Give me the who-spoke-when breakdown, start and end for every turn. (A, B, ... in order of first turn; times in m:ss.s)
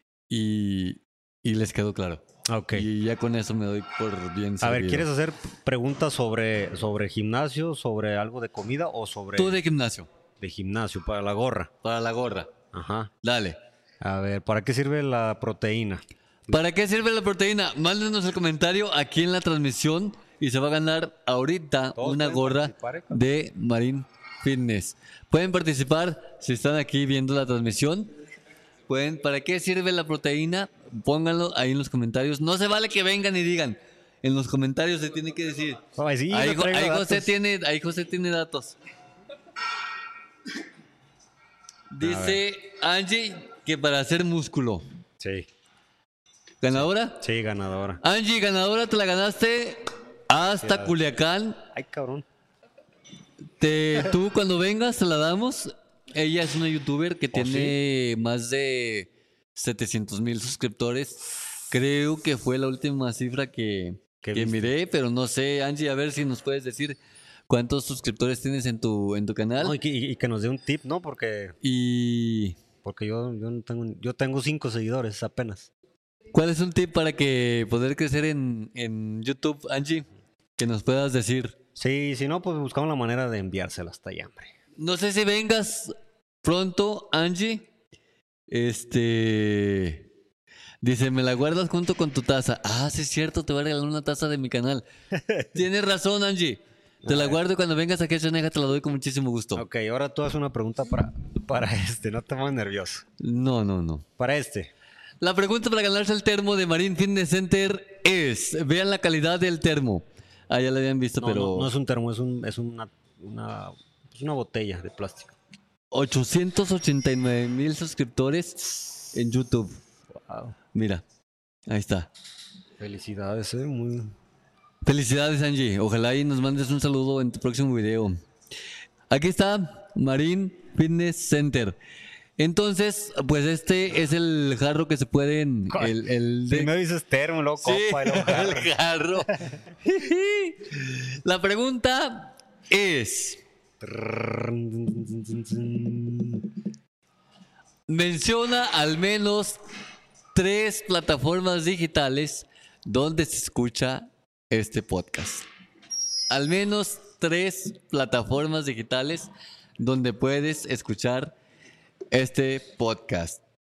0:00.3-0:05.1 A
0:02.5-0:02.9 B
0:04.6-0:09.6 B
0:09.4-0:10.1 A
0:10.4-0:11.7 B
0:11.8-0:12.5 A
0:12.7-0:13.1 B
0:13.2-0:13.6 A
0:14.0-0:16.6 B
0:16.5-0:28.1 A
0:22.0-0:23.2 B
0:28.9-0:38.8 A
0:36.0-0:37.3 B
0:41.9-0:44.9 A
0:42.0-0:42.4 B
0:45.2-0:45.5 B
0:46.6-0:47.2 A
0:46.8-0:48.0 B
0:48.0-0:51.6 A
0:50.6-0:51.0 B
0:51.7-0:52.3 B
0:53.6-1:07.0 A
0:57.3-0:57.8 B
1:04.2-1:04.7 B
1:07.5-1:09.8 A
1:09.6-1:11.6 B
1:11.6-1:12.6 A
1:12.8-1:15.7 B
1:16.3-1:20.1 A
1:20.6-1:21.6 A
1:21.8-1:24.5 B
1:24.8-1:27.7 A
1:28.5-1:30.1 A
1:30.8-1:34.8 A
1:35.1-1:35.5 B
1:35.5-1:39.6 A
1:37.0-1:37.4 B
1:39.6-1:43.0 B
1:43.2-1:44.0 A
1:44.2-1:44.7 B
1:45.2-1:51.7 A
1:51.2-1:55.4 B
1:55.9-1:59.8 A
2:00.2-2:00.6 B
2:00.7-2:01.0 A
2:01.7-2:02.1 A
2:02.8-2:04.2 B
2:04.8-2:08.2 A
2:09.1-2:11.8 A
2:12.4-2:16.7 A
2:15.7-2:18.7 B
2:17.6-2:19.3 A
2:19.8-2:23.4 A
2:23.8-2:26.5 B
2:27.9-2:29.6 A
2:30.3-2:35.5 A
2:36.3-2:41.3 A
2:42.1-2:43.4 A